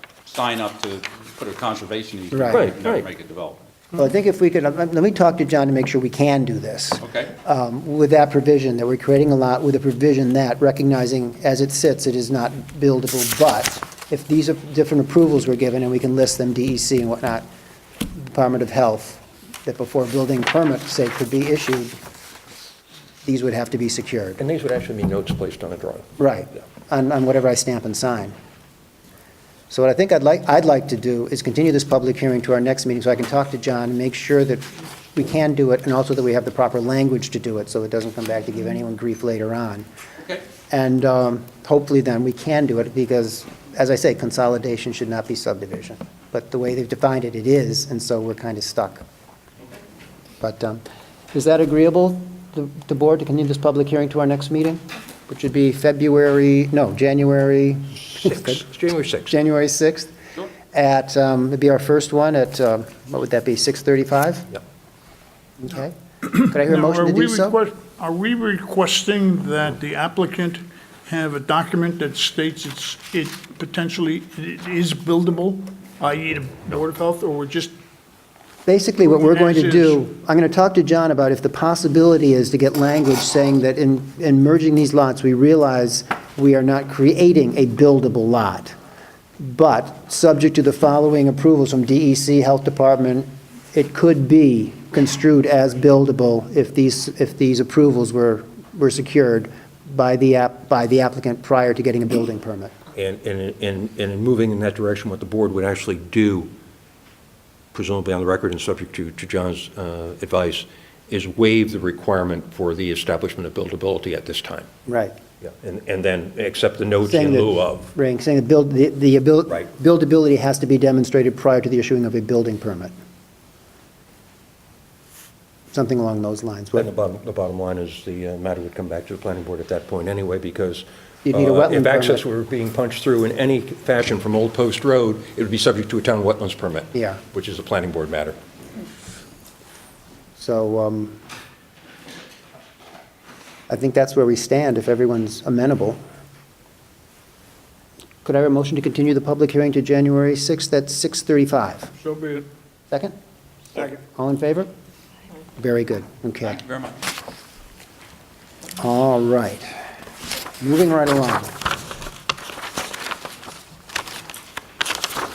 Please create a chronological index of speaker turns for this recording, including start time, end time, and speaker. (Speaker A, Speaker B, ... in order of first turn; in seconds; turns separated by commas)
Speaker A: 0.2-3.6, Speaker B: 2.3-2.6, Speaker C: 2.5-3.1, Speaker B: 4.0-17.4, Speaker A: 7.0-7.3, Speaker B: 18.1-21.9, Speaker B: 23.2-24.4, Speaker C: 24.4-26.1, Speaker B: 26.2-28.4, Speaker B: 29.7-39.9, Speaker B: 40.7-49.0, Speaker B: 50.4-58.6, Speaker C: 58.0-59.4, Speaker B: 59.3-60.1, Speaker B: 60.7-64.6, Speaker B: 65.6-66.0, Speaker D: 66.3-77.7, Speaker B: 66.5-67.6, Speaker B: 78.7-88.7, Speaker D: 79.0-80.0, Speaker B: 89.4-102.7, Speaker C: 103.0-106.5, Speaker C: 107.7-114.7, Speaker B: 114.9-115.2, Speaker C: 115.4-117.9, Speaker B: 117.1-122.9, Speaker B: 125.7-126.9, Speaker C: 126.8-138.4, Speaker B: 131.3-132.2, Speaker B: 136.9-137.2, Speaker B: 140.4-141.2, Speaker B: 143.7-146.0, Speaker B: 148.2-151.9, Speaker B: 152.9-153.2, Speaker B: 153.8-154.7, Speaker B: 155.6-156.6, Speaker A: 156.4-157.0, Speaker B: 158.8-159.8, Speaker B: 160.6-161.5